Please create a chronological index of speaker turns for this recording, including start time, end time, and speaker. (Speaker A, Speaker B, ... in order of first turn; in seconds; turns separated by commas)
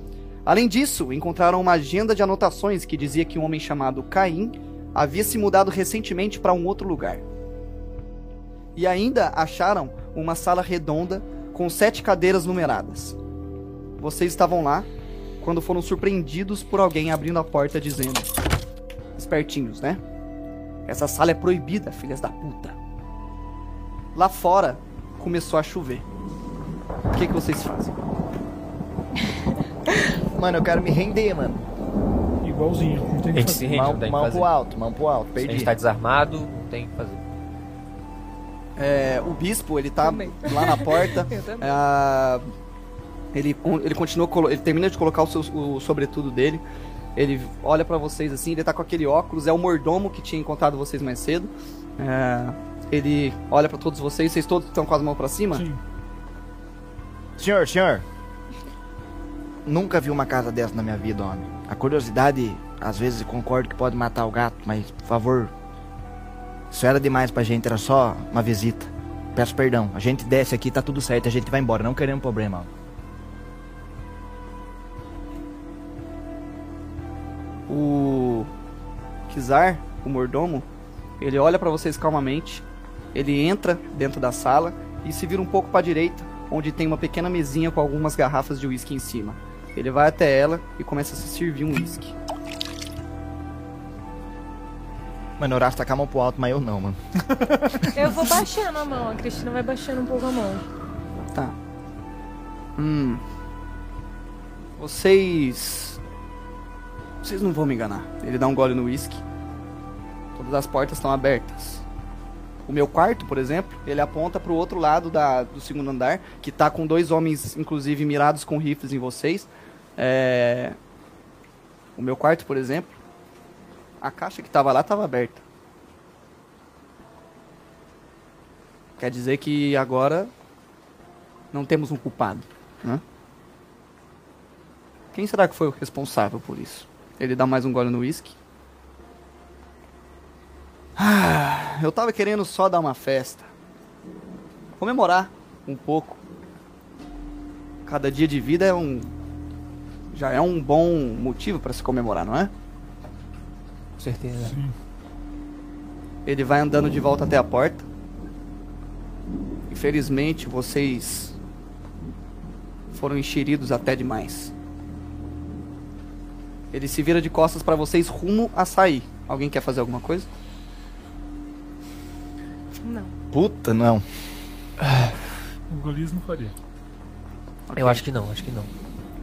Speaker A: 0.5-7.2, Speaker A: 8.8-13.2, Speaker A: 14.0-14.9, Speaker A: 15.4-18.4, Speaker A: 19.1-20.0, Speaker A: 20.9-22.8, Speaker A: 24.1-26.0, Speaker A: 27.1-27.9, Speaker B: 30.3-31.6, Speaker C: 32.4-33.7, Speaker D: 33.3-34.5, Speaker B: 33.7-35.7, Speaker D: 35.4-37.2, Speaker A: 38.8-42.5, Speaker E: 40.0-41.8, Speaker A: 43.3-46.6, Speaker A: 47.1-55.6, Speaker C: 55.5-55.8, Speaker B: 57.4-58.0, Speaker B: 59.6-65.5, Speaker B: 66.7-72.7, Speaker A: 77.7-78.5, Speaker A: 79.3-80.7, Speaker A: 81.2-92.1, Speaker B: 95.4-97.0, Speaker C: 97.4-98.1, Speaker E: 97.9-100.6, Speaker A: 102.8-103.2, Speaker A: 104.8-106.0, Speaker A: 107.2-109.2, Speaker A: 110.3-111.8, Speaker A: 112.7-120.8, Speaker A: 122.0-123.0, Speaker A: 124.0-125.4, Speaker A: 129.0-130.3, Speaker A: 131.5-133.0, Speaker A: 135.1-138.3, Speaker A: 141.0-143.5, Speaker A: 144.8-146.2, Speaker A: 147.8-149.1, Speaker A: 150.1-152.5, Speaker D: 154.0-154.6, Speaker C: 154.4-154.7, Speaker A: 156.2-157.9, Speaker A: 159.7-161.4, Speaker A: 162.9-164.5, Speaker A: 166.7-170.3, Speaker E: 172.8-173.1, Speaker B: 173.3-174.0, Speaker D: 174.8-175.1, Speaker C: 175.7-176.5, Speaker A: 177.7-178.0, Speaker D: 177.8-178.7